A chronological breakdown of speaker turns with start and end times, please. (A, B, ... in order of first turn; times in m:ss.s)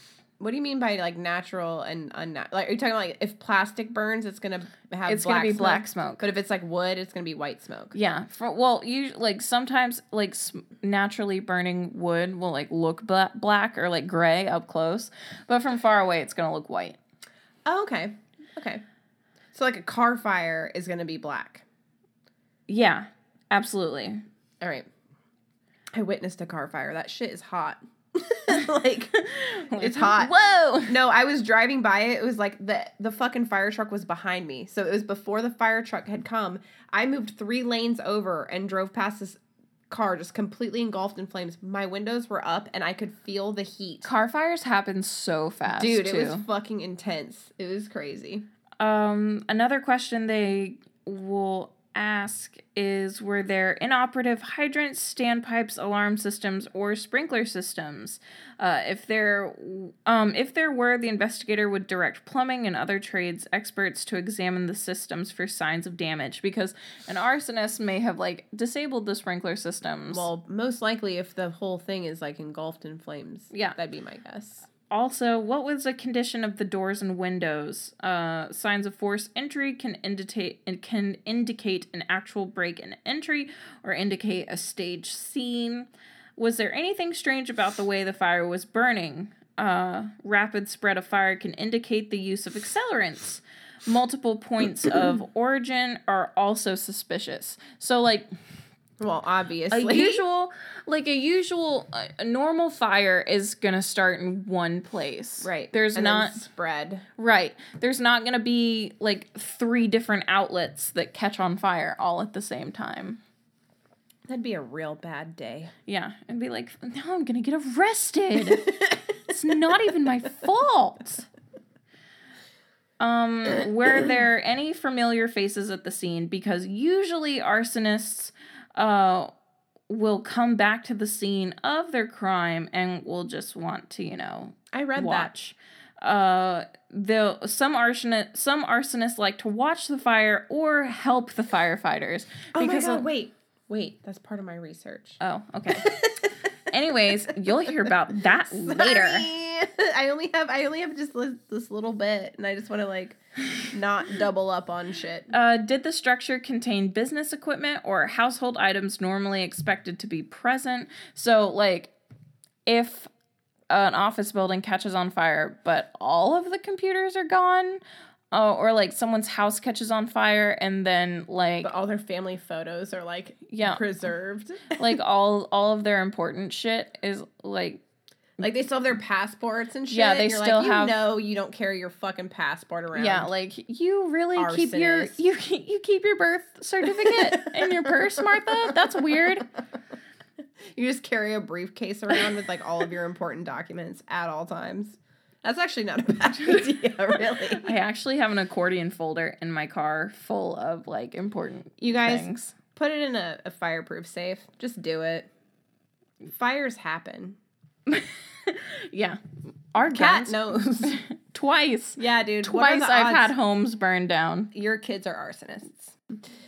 0:00.4-0:08.0 A
0:05.0-0:06.3 B
0:07.9-0:17.0 B
0:17.6-0:18.8 A
0:19.5-0:21.6 A
0:22.7-0:24.2 B
0:24.6-0:24.9 A
0:25.9-0:30.3 A
0:29.1-0:30.9 B
0:30.8-0:44.1 A
0:44.0-0:46.4 B
0:45.7-0:48.4 A
0:48.8-1:10.3 B
1:10.1-1:14.6 A
1:14.9-1:38.3 B
1:39.0-1:40.2 A
1:39.7-1:46.4 B
1:45.4-1:47.0 A
1:47.2-1:53.2 B
1:54.3-1:55.7 A
1:55.8-1:58.8 B
1:59.3-2:01.3 B
2:03.0-2:09.3 B
2:09.9-2:23.0 B
2:14.7-2:15.3 A
2:22.5-2:26.3 A
2:25.2-2:25.9 B
2:26.7-2:29.3 B
2:28.4-2:35.3 A
2:35.3-2:41.9 B
2:42.6-2:43.1 B
2:43.7-2:47.8 B
2:48.3-2:51.7 B
2:51.6-2:54.8 A
2:53.5-2:53.8 B
2:54.7-2:57.8 B
2:58.4-3:03.3 A
2:59.9-3:01.0 B
3:02.9-3:09.5 B
3:04.4-3:05.1 A
3:07.0-3:08.6 A
3:10.8-3:17.6 A
3:17.6-3:22.6 B
3:21.8-3:25.3 A
3:26.2-3:27.4 A
3:27.9-3:34.5 B
3:29.8-3:31.0 A
3:32.0-3:33.3 A
3:34.5-3:36.0 A